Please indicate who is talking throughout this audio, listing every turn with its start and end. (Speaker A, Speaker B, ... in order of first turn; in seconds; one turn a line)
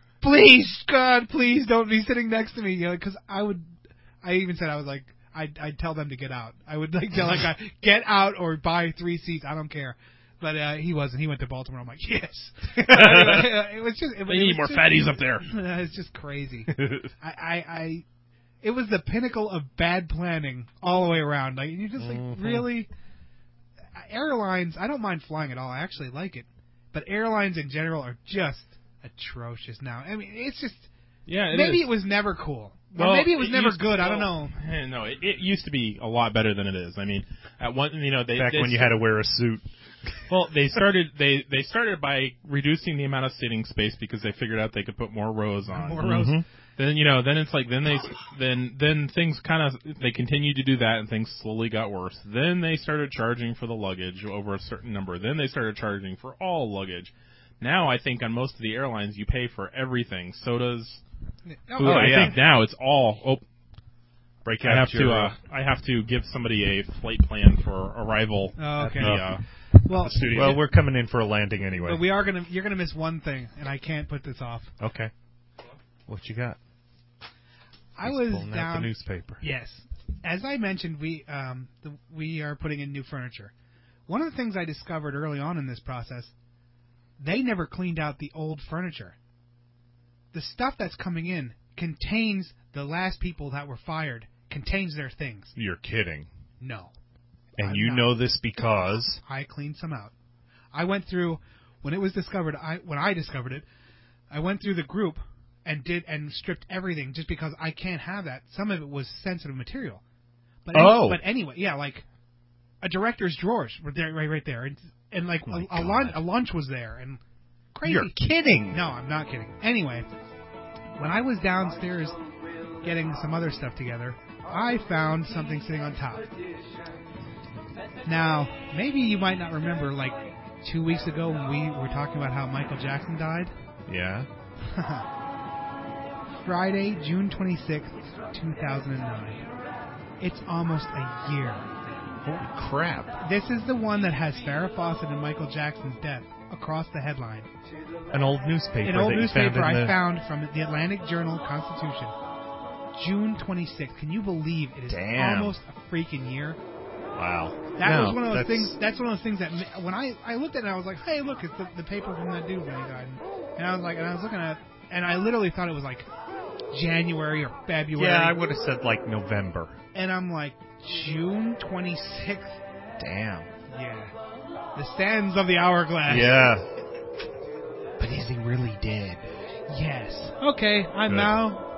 Speaker A: 0.2-3.7
Speaker A: 4.2-18.1
Speaker B: 12.9-13.4
Speaker C: 14.3-15.4
Speaker B: 16.7-17.1
Speaker A: 18.6-22.9
Speaker B: 22.0-22.7
Speaker A: 23.9-30.9
Speaker C: 31.3-31.9
Speaker A: 31.5-34.5
Speaker C: 32.9-39.0
Speaker B: 38.3-40.1
Speaker C: 40.3-46.2
Speaker A: 45.7-46.4
Speaker B: 46.0-46.4
Speaker C: 46.8-61.0
Speaker A: 61.5-62.4
Speaker C: 61.8-63.4
Speaker B: 61.8-62.4
Speaker B: 64.4-65.4
Speaker C: 64.6-70.6
Speaker A: 68.6-69.2
Speaker B: 68.8-69.4
Speaker A: 69.8-70.5
Speaker B: 70.2-72.0
Speaker A: 71.8-74.7
Speaker B: 74.8-75.1
Speaker B: 76.1-76.6
Speaker A: 78.0-83.5
Speaker B: 78.0-79.4
Speaker A: 84.1-86.3
Speaker A: 87.2-89.2
Speaker A: 90.3-95.5
Speaker B: 95.5-96.3
Speaker A: 96.6-96.9
Speaker B: 97.6-99.2
Speaker A: 97.6-98.3
Speaker A: 99.2-100.1
Speaker A: 100.7-103.6
Speaker A: 104.3-110.0
Speaker A: 110.6-112.0
Speaker B: 110.7-111.2
Speaker A: 112.8-117.2
Speaker B: 115.5-116.2
Speaker A: 117.7-118.2
Speaker B: 117.8-118.8
Speaker A: 118.7-120.1
Speaker A: 121.0-122.2
Speaker A: 122.8-126.2
Speaker A: 128.1-133.5
Speaker B: 133.9-134.3
Speaker A: 134.7-135.1
Speaker A: 136.4-139.4
Speaker A: 140.2-141.7
Speaker B: 142.2-143.2
Speaker A: 143.2-147.5
Speaker B: 148.1-150.0
Speaker A: 148.8-152.1
Speaker A: 152.9-156.6
Speaker B: 154.9-155.6
Speaker B: 157.2-158.7
Speaker A: 157.8-166.1
Speaker A: 166.7-168.4
Speaker B: 167.9-169.8
Speaker A: 169.9-172.6
Speaker B: 173.0-173.5
Speaker A: 173.7-174.1
Speaker A: 174.7-176.5
Speaker B: 176.1-176.7
Speaker B: 178.0-179.3
Speaker A: 179.7-181.6
Speaker B: 181.1-181.4